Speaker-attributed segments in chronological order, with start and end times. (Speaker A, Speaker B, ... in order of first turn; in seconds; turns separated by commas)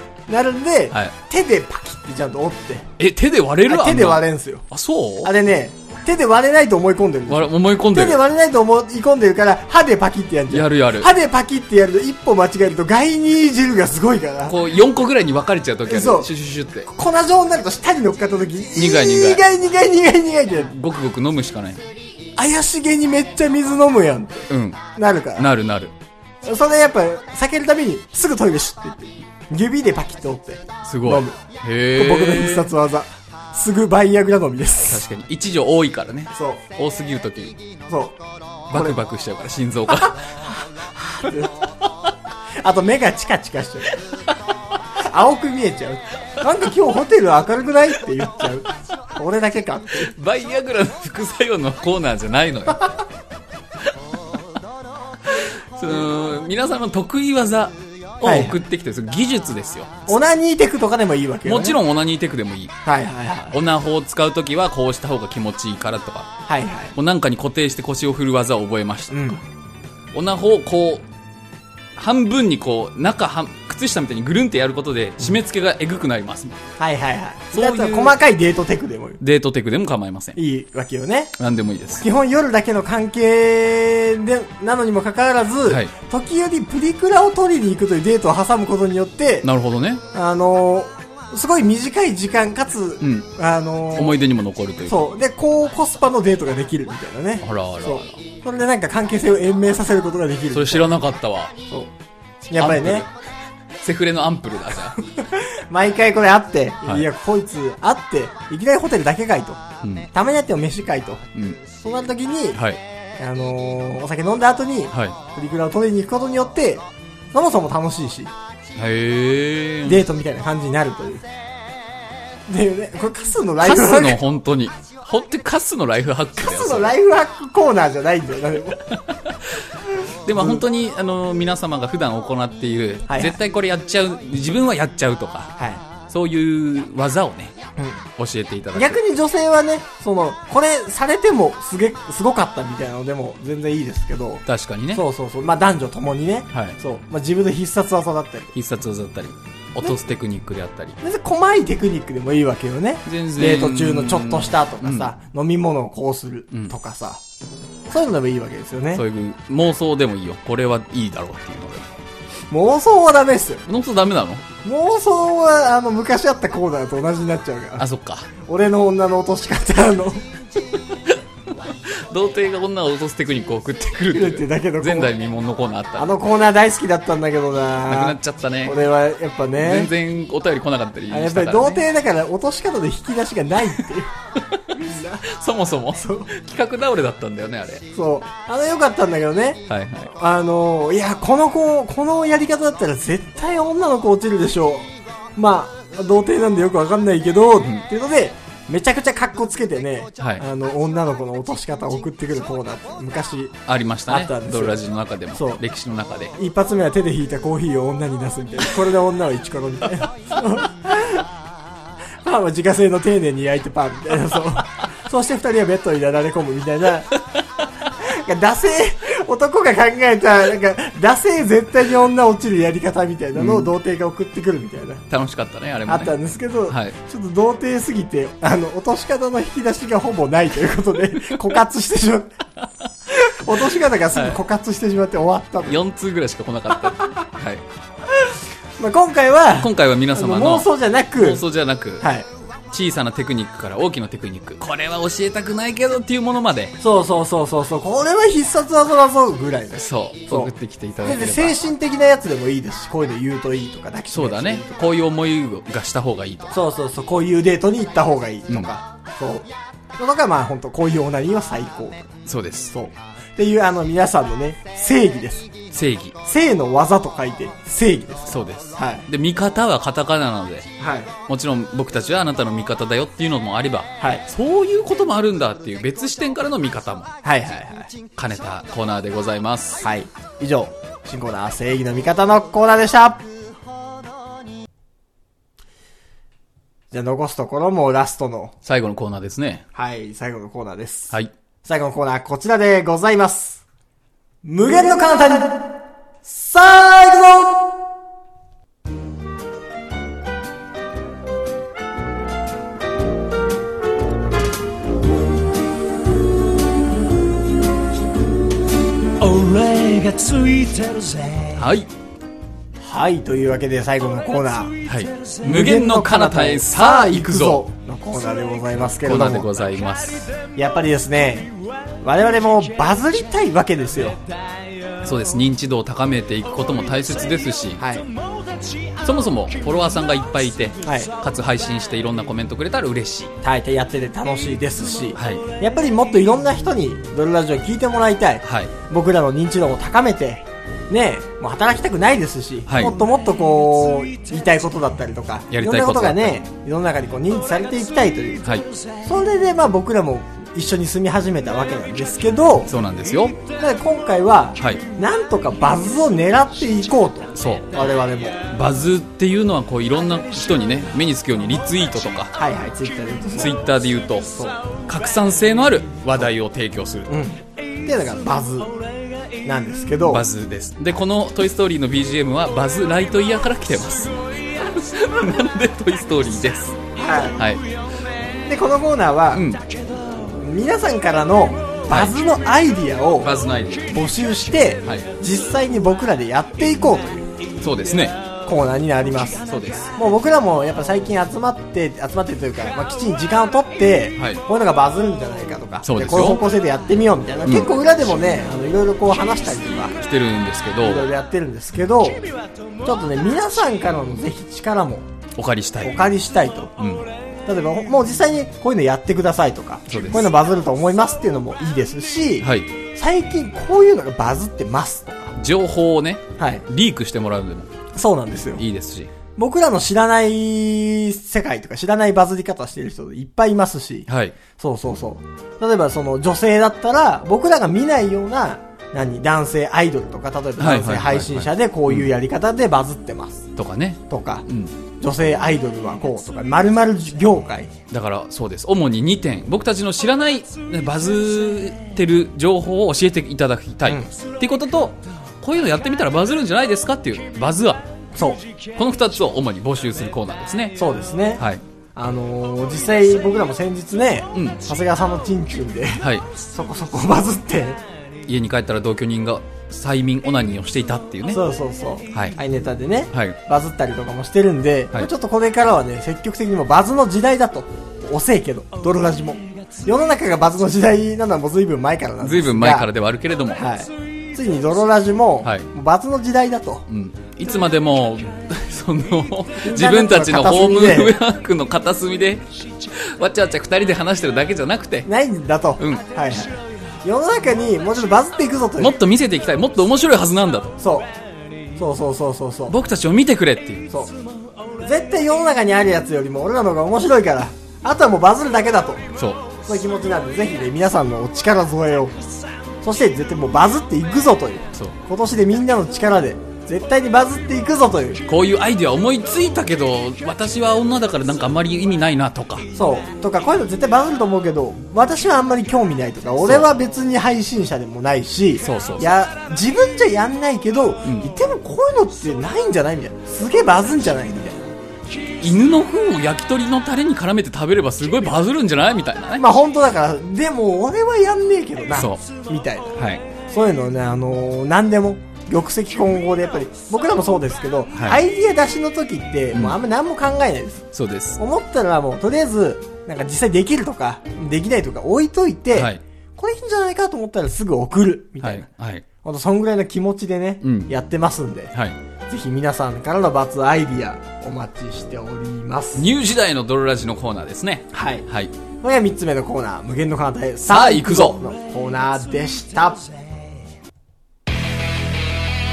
Speaker A: 0.3-2.9, Speaker B: 3.0-5.3, Speaker A: 3.7-4.7, Speaker A: 5.2-14.6, Speaker B: 7.3-8.2, Speaker B: 10.5-11.1, Speaker B: 14.5-16.9, Speaker A: 15.9-16.3, Speaker A: 16.9-20.7, Speaker B: 18.8-19.5, Speaker B: 20.6-21.9, Speaker A: 22.4-25.5, Speaker B: 24.5-24.9, Speaker B: 25.4-25.9, Speaker A: 26.4-31.4, Speaker B: 30.8-32.7, Speaker A: 31.9-35.0, Speaker B: 34.9-37.6, Speaker A: 36.3-36.6, Speaker A: 37.9-38.2, Speaker A: 38.7-39.0, Speaker B: 38.7-40.3, Speaker A: 41.1-41.7, Speaker A: 42.6-44.0, Speaker A: 45.0-50.1, Speaker B: 50.0-52.9, Speaker B: 55.2-60.1, Speaker A: 58.2-58.6, Speaker A: 60.1-61.8, Speaker B: 61.5-62.8, Speaker A: 62.9-63.6, Speaker B: 63.5-66.3, Speaker A: 66.5-67.0, Speaker B: 67.0-69.3, Speaker A: 69.1-69.4, Speaker B: 70.1-71.1, Speaker B: 72.0-76.6, Speaker A: 76.8-79.2, Speaker B: 77.5-78.2, Speaker B: 79.2-80.4, Speaker A: 80.4-81.3, Speaker B: 81.4-82.0, Speaker A: 82.0-89.5, Speaker B: 85.7-85.9, Speaker B: 89.4-90.0, Speaker A: 90.1-94.2, Speaker B: 93.0-93.3, Speaker B: 93.9-95.1, Speaker A: 94.9-100.9, Speaker B: 97.4-98.2, Speaker B: 100.5-101.5, Speaker A: 102.5-103.1, Speaker B: 102.6-103.1, Speaker B: 103.8-105.0, Speaker A: 105.0-112.6, Speaker B: 109.8-110.1, Speaker B: 112.5-112.8, Speaker A: 113.2-118.3, Speaker B: 114.9-115.2, Speaker B: 118.8-120.0, Speaker A: 119.8-121.2, Speaker A: 122.5-124.2, Speaker B: 123.6-127.0, Speaker A: 126.4-128.8, Speaker B: 128.7-129.7, Speaker B: 130.2-135.5, Speaker A: 130.3-130.6, Speaker A: 133.1-133.4, Speaker A: 135.6-135.8, Speaker B: 136.1-137.6, Speaker A: 137.8-138.1, Speaker B: 138.2-139.0, Speaker A: 138.8-148.5, Speaker B: 144.5-145.0, Speaker B: 146.5-146.8, Speaker B: 148.6-151.0, Speaker A: 151.0-157.2, Speaker B: 153.1-155.1, Speaker A: 157.9-159.0, Speaker B: 158.9-161.9, Speaker A: 162.5-163.6, Speaker B: 163.7-164.5, Speaker A: 164.6-167.9, Speaker B: 167.8-168.3, Speaker A: 168.5-170.3, Speaker B: 170.9-176.2, Speaker A: 174.1-175.1, Speaker A: 176.0-179.9, Speaker B: 177.8-178.8, Speaker B: 179.6-181.9, Speaker A: 181.1-184.1, Speaker A: 184.7-185.3, Speaker B: 185.2-187.8, Speaker A: 185.9-186.3, Speaker A: 187.9-204.8, Speaker B: 189.7-190.1, Speaker B: 197.6-197.9, Speaker B: 200.2-200.4, Speaker B: 203.7-206.3, Speaker A: 205.3-205.6, Speaker A: 206.4-211.3, Speaker A: 212.2-217.2, Speaker A: 217.9-225.0, Speaker B: 223.3-223.7, Speaker B: 225.1-226.2, Speaker A: 225.9-232.3, Speaker B: 226.7-226.9, Speaker B: 231.1-231.4, Speaker A: 233.1-235.8, Speaker B: 233.5-234.4, Speaker B: 235.7-237.7, Speaker A: 236.9-237.3, Speaker A: 238.1-241.4, Speaker B: 239.6-242.1, Speaker A: 242.0-242.3, Speaker B: 242.7-246.8, Speaker A: 246.8-254.8, Speaker B: 249.8-251.6, Speaker B: 254.1-256.6, Speaker A: 256.5-262.2, Speaker B: 262.3-262.7, Speaker A: 262.7-265.5, Speaker B: 265.7-266.2, Speaker A: 266.2-269.1, Speaker B: 268.3-270.7, Speaker A: 270.8-271.1, Speaker B: 271.3-277.1, Speaker A: 274.0-274.2, Speaker A: 277.2-277.9, Speaker B: 278.2-279.9, Speaker A: 279.8-283.3, Speaker A: 286.9-288.5, Speaker B: 288.6-289.6, Speaker A: 289.8-293.6, Speaker A: 294.4-297.7, Speaker C: 309.2-311.7, Speaker B: 311.6-311.9, Speaker A: 312.8-314.8, Speaker B: 314.9-317.6, Speaker A: 315.4-319.5, Speaker B: 319.0-320.3, Speaker A: 320.6-324.2, Speaker B: 325.0-327.8, Speaker A: 327.8-328.1, Speaker B: 329.0-333.3, Speaker A: 330.8-331.1, Speaker A: 333.4-352.7, Speaker B: 335.1-335.4, Speaker B: 338.4-338.7, Speaker B: 342.7-343.0, Speaker B: 345.5-346.4, Speaker B: 352.7-353.4, Speaker A: 353.5-358.4, Speaker B: 357.4-357.9, Speaker B: 358.5-362.3, Speaker A: 362.4-363.6, Speaker B: 363.4-367.1, Speaker A: 367.1-368.7, Speaker A: 369.4-370.2, Speaker B: 370.0-376.8, Speaker A: 376.9-377.4, Speaker B: 377.4-377.6, Speaker A: 378.5-379.5, Speaker B: 379.3-379.6, Speaker A: 380.3-383.3, Speaker B: 381.9-382.2, Speaker B: 383.2-383.9, Speaker A: 383.9-387.2, Speaker B: 384.8-385.1, Speaker B: 387.6-388.2, Speaker A: 388.5-399.9, Speaker B: 389.5-389.9, Speaker B: 394.2-394.4, Speaker B: 395.8-396.4, Speaker B: 397.4-397.7, Speaker B: 400.0-401.1, Speaker A: 400.8-402.2, Speaker A: 402.8-405.1, Speaker B: 405.4-406.0, Speaker A: 405.8-406.7, Speaker B: 406.8-407.1, Speaker A: 407.5-415.4, Speaker B: 409.9-410.3, Speaker B: 412.4-412.7, Speaker B: 415.4-417.7, Speaker A: 416.4-416.7, Speaker A: 417.9-418.6, Speaker B: 418.6-419.1, Speaker A: 419.4-433.5, Speaker B: 424.1-424.4, Speaker B: 430.6-432.1, Speaker B: 433.6-434.7, Speaker A: 434.1-434.5, Speaker A: 435.0-437.7, Speaker B: 437.9-447.9, Speaker A: 443.9-444.1, Speaker A: 448.1-448.4, Speaker B: 448.8-450.8, Speaker A: 450.8-457.8, Speaker B: 451.4-451.6, Speaker B: 454.3-454.6, Speaker B: 456.0-456.3, Speaker B: 458.3-461.4, Speaker A: 461.3-472.9, Speaker B: 462.1-462.4, Speaker B: 463.1-463.4, Speaker B: 472.2-473.6, Speaker A: 473.5-476.9, Speaker B: 475.4-475.7, Speaker B: 476.9-485.1, Speaker A: 479.6-481.2, Speaker A: 485.1-489.0, Speaker B: 485.8-486.2, Speaker B: 488.8-490.8, Speaker A: 490.8-491.1, Speaker A: 491.8-492.8, Speaker B: 492.7-493.9, Speaker A: 494.8-499.1, Speaker B: 499.2-499.5, Speaker A: 499.6-502.1, Speaker A: 502.8-508.2, Speaker B: 508.3-512.7, Speaker A: 512.7-524.6, Speaker B: 516.4-516.7, Speaker B: 518.6-519.1, Speaker B: 521.0-521.3, Speaker B: 525.4-529.5, Speaker A: 529.4-540.9, Speaker B: 531.9-532.2, Speaker B: 533.0-533.2, Speaker B: 537.9-538.2, Speaker B: 539.5-539.8, Speaker B: 540.9-541.4, Speaker A: 541.4-548.7, Speaker B: 545.7-546.0, Speaker B: 548.4-549.1, Speaker A: 549.2-551.7, Speaker B: 550.6-550.9, Speaker B: 551.7-552.0, Speaker A: 552.3-556.1, Speaker B: 556.0-558.5, Speaker A: 557.9-558.3, Speaker A: 558.8-563.1, Speaker B: 560.6-561.4